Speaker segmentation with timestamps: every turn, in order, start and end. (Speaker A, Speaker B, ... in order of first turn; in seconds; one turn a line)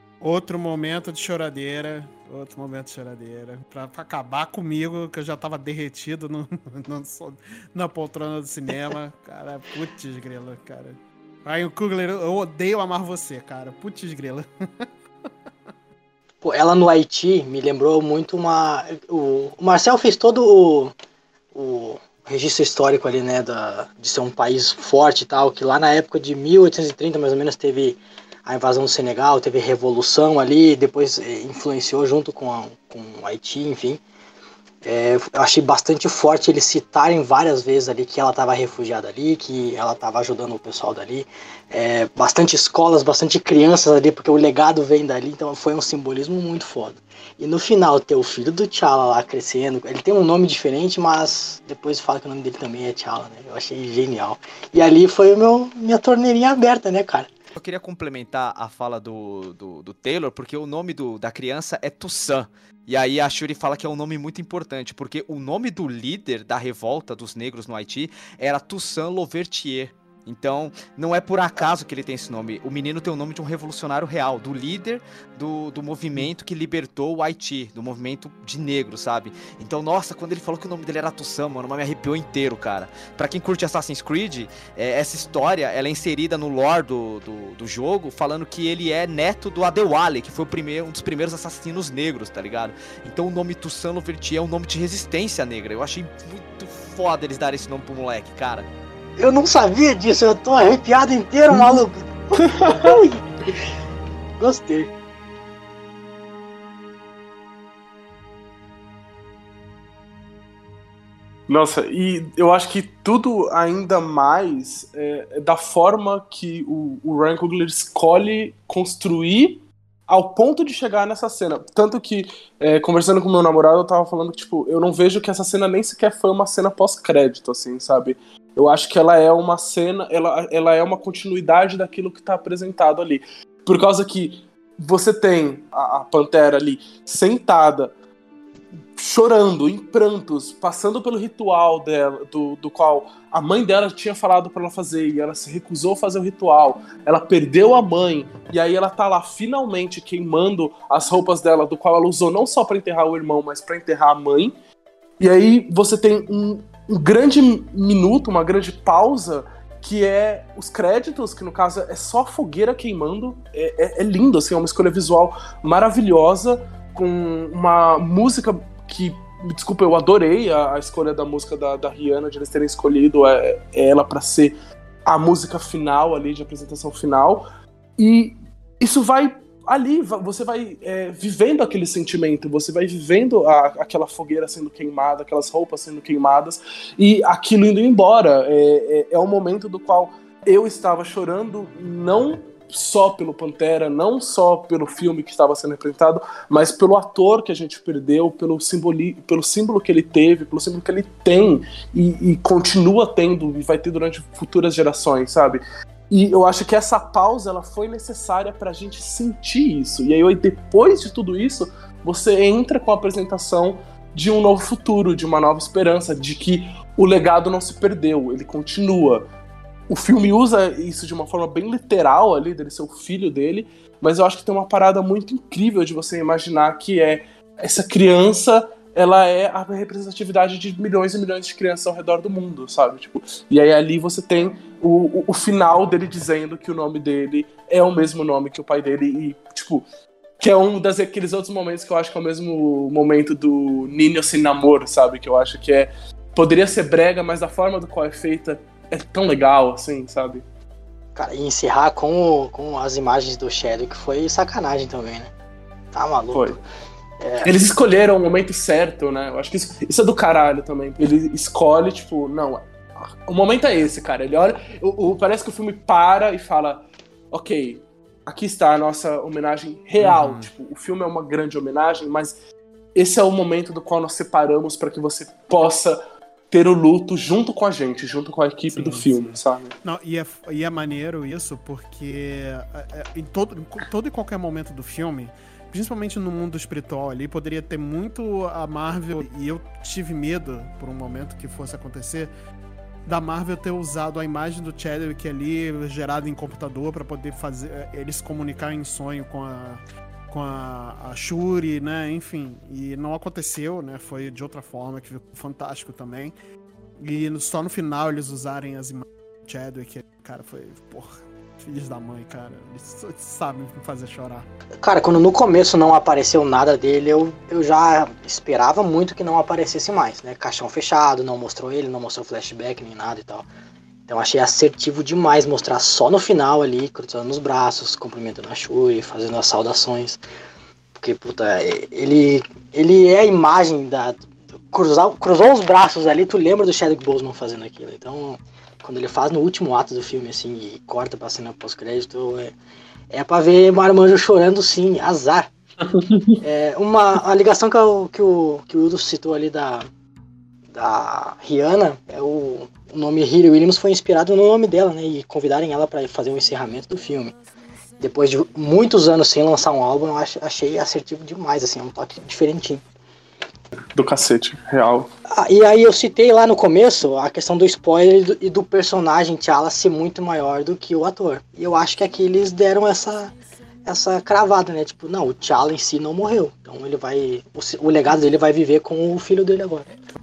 Speaker A: 0.2-14.9
Speaker B: 16.4-20.9
Speaker B: 21.5-34.0
Speaker B: 34.8-57.3
Speaker C: 57.5-98.7
Speaker B: 99.2-103.2
Speaker D: 101.5-101.8
Speaker D: 102.4-103.0
Speaker B: 104.4-104.9
Speaker D: 111.5-137.9
Speaker D: 139.0-154.5
Speaker D: 155.2-174.5
Speaker D: 175.1-177.5
Speaker D: 178.0-219.3
Speaker D: 219.9-239.8
Speaker D: 240.4-250.4
Speaker B: 251.1-255.3
Speaker B: 255.9-256.6
Speaker D: 256.3-256.6
Speaker B: 257.2-257.5
Speaker D: 257.4-262.6
Speaker D: 263.3-272.4
Speaker A: 270.0-270.5
Speaker D: 272.9-276.0
Speaker D: 276.5-279.7
Speaker A: 278.7-292.3
Speaker A: 293.1-306.3
Speaker A: 307.0-314.5
Speaker B: 314.8-323.5
Speaker B: 324.1-330.2
Speaker B: 331.0-342.5
Speaker B: 343.1-345.5
Speaker D: 345.9-346.4
Speaker B: 346.4-349.9
Speaker B: 350.7-357.4
Speaker B: 358.0-362.8
Speaker D: 363.9-365.1
Speaker B: 365.3-373.3
Speaker B: 373.9-379.9